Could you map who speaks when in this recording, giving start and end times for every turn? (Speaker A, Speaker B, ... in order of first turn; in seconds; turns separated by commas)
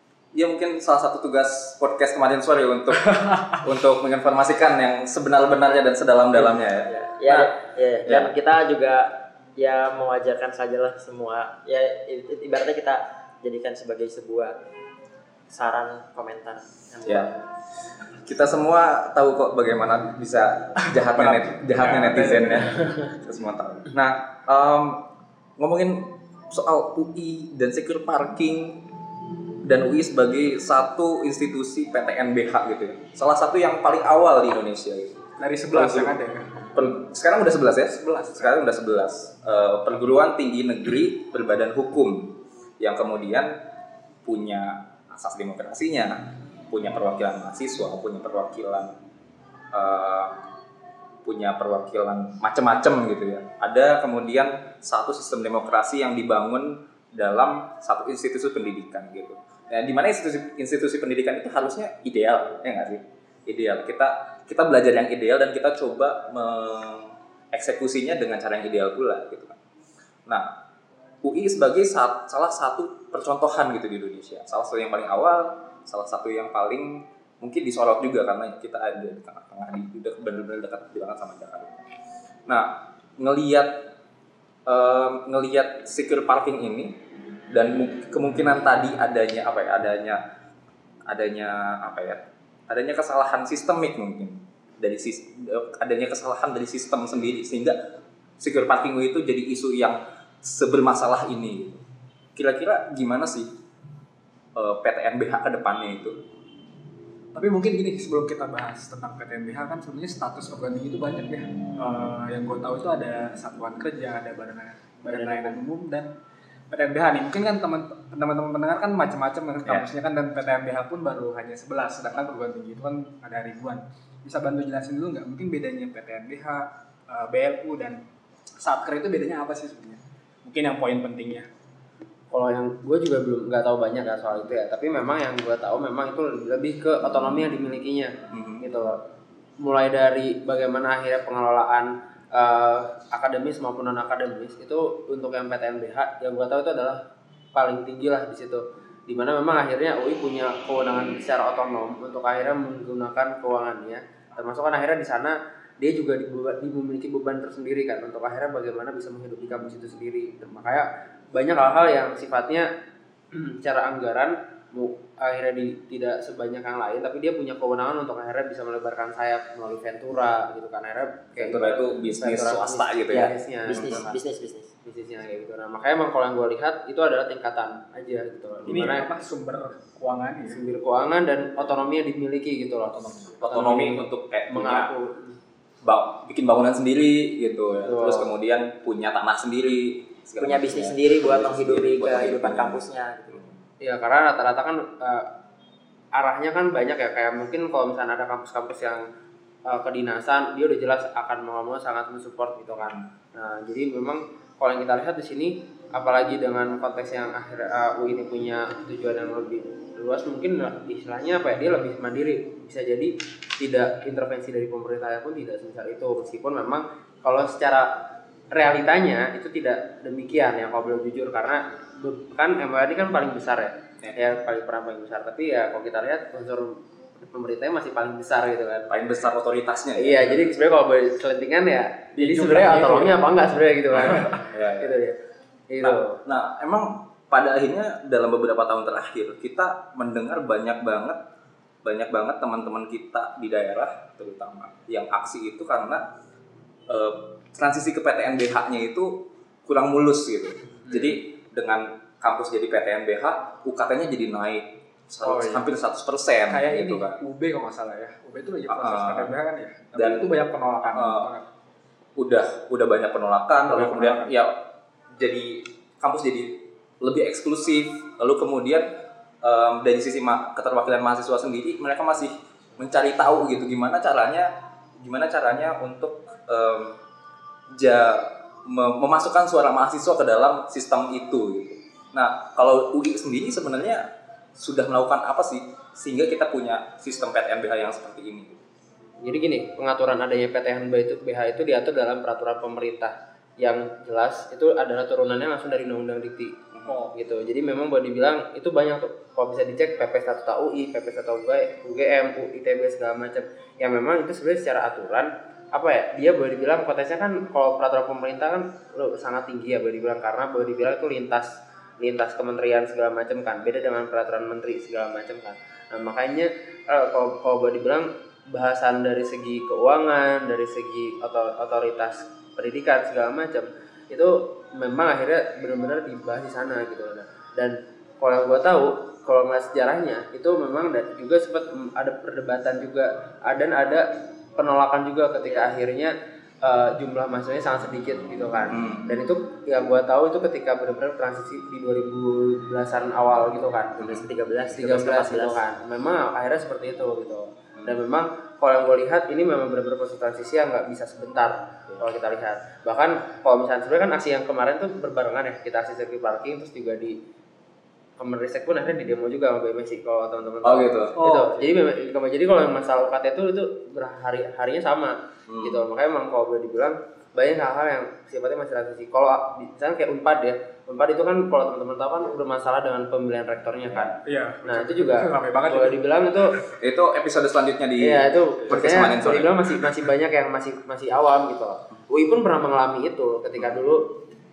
Speaker A: 0.3-7.5, Speaker B: 3.2-3.6, Speaker C: 6.7-14.6, Speaker A: 8.0-8.3, Speaker C: 15.5-17.4, Speaker A: 17.1-17.3, Speaker A: 18.2-25.1, Speaker B: 20.9-22.8, Speaker A: 25.6-28.8, Speaker A: 29.6-36.2, Speaker B: 35.4-36.5, Speaker A: 36.7-43.6, Speaker B: 37.9-38.6, Speaker A: 44.2-48.9, Speaker A: 49.7-50.4, Speaker A: 51.2-69.6, Speaker A: 70.3-70.5, Speaker A: 71.2-81.8, Speaker A: 82.5-83.9, Speaker A: 84.7-87.0, Speaker A: 87.5-90.2, Speaker A: 91.1-97.8, Speaker A: 98.4-101.8, Speaker A: 102.4-103.5, Speaker A: 104.5-106.2, Speaker B: 107.3-116.1, Speaker C: 115.1-115.6, Speaker B: 116.7-128.0, Speaker B: 128.6-131.5, Speaker D: 132.3-139.0, Speaker A: 138.3-138.7, Speaker D: 139.6-147.0, Speaker D: 147.5-162.7, Speaker D: 163.3-174.2, Speaker A: 171.4-174.1, Speaker C: 173.1-174.7, Speaker D: 174.8-179.1, Speaker B: 178.7-180.6, Speaker D: 180.5-185.4, Speaker B: 182.9-183.3, Speaker A: 183.4-184.9, Speaker A: 185.8-192.8, Speaker D: 187.8-188.3, Speaker C: 190.4-193.4, Speaker D: 193.8-195.3, Speaker D: 196.1-199.1, Speaker D: 199.7-218.0, Speaker D: 218.5-228.9, Speaker A: 228.9-230.5, Speaker D: 230.0-235.2, Speaker B: 232.2-233.2, Speaker A: 233.9-235.0, Speaker D: 235.7-236.2, Speaker A: 235.8-241.2, Speaker A: 241.8-246.1, Speaker A: 246.9-257.2, Speaker B: 255.2-255.7, Speaker B: 256.5-261.5, Speaker A: 258.7-259.4, Speaker A: 259.9-260.4, Speaker A: 260.9-261.3, Speaker A: 262.2-264.6, Speaker B: 263.6-264.4, Speaker A: 265.2-268.9, Speaker A: 269.4-277.0, Speaker A: 277.7-288.6, Speaker D: 289.2-296.6, Speaker B: 296.9-297.1, Speaker D: 297.1-344.2, Speaker A: 338.7-339.1, Speaker C: 344.0-345.6, Speaker D: 344.7-357.2, Speaker D: 358.2-376.5, Speaker A: 360.6-361.2, Speaker B: 361.2-361.7, Speaker A: 365.5-365.8, Speaker B: 374.2-376.0, Speaker A: 376.8-379.7, Speaker D: 378.0-384.1